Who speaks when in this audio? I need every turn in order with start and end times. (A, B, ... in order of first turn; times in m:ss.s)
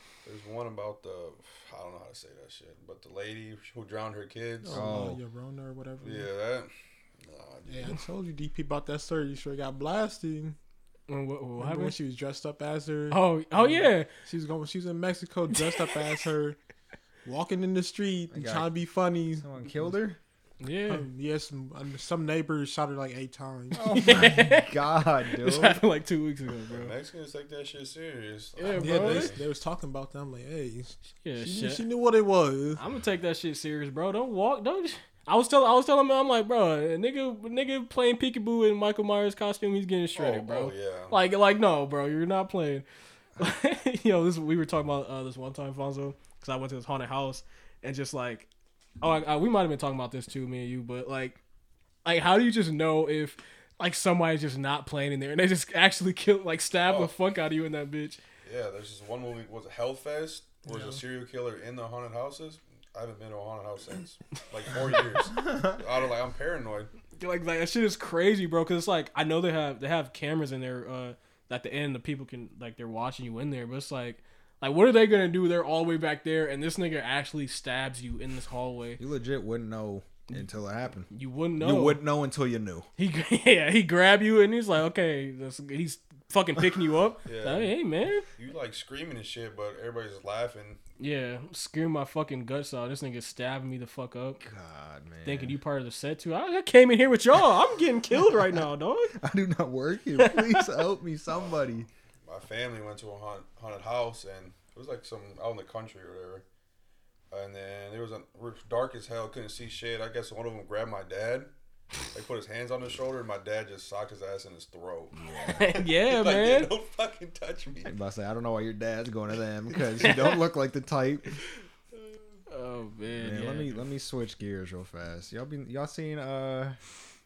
0:00.2-0:04.9 A
0:04.6-0:06.3 B
0:04.7-0:05.2 C
0:06.0-0:08.0 A
0:07.7-0:10.6 B
0:11.1-0:12.0 D
0:11.6-0:16.6 B
0:13.1-0:14.1 D
0:15.7-0:16.0 D
0:17.2-0:19.5 B
0:18.3-0:18.7 C
0:19.4-0:20.2 C
0:20.6-0:21.1 D
0:20.9-0:23.9 B
0:23.7-0:25.8 C
0:23.8-0:24.8 D
0:25.3-0:26.9 D
0:26.7-0:29.4 A
0:28.6-0:29.3 D
0:28.7-0:32.8 B
0:31.2-0:31.8 D
0:32.8-0:42.9 D
0:40.2-0:41.2 A
0:43.4-0:48.5 D
0:49.0-0:51.4 D
0:52.0-0:58.2 D
0:56.8-0:57.1 A
0:58.4-1:06.9 A
1:00.7-1:01.0 B
1:05.4-1:05.8 C
1:07.2-1:19.0 D
1:19.0-1:22.9 C
1:21.1-1:22.0 D
1:23.0-1:28.3 D
1:27.3-1:27.7 A
1:28.4-1:30.8 A
1:31.0-1:34.4 D
1:34.4-1:35.6 C
1:35.2-1:39.2 D
1:38.1-1:41.9 C
1:40.2-1:40.7 D
1:41.3-1:46.4 A
1:47.3-1:51.5 A
1:52.1-1:58.0 A
1:55.1-1:55.7 C
1:55.5-1:56.7 D
1:57.8-2:01.4 C
2:00.0-2:00.4 D
2:01.9-2:02.4 A
2:02.5-2:03.8 D
2:03.2-2:06.8 C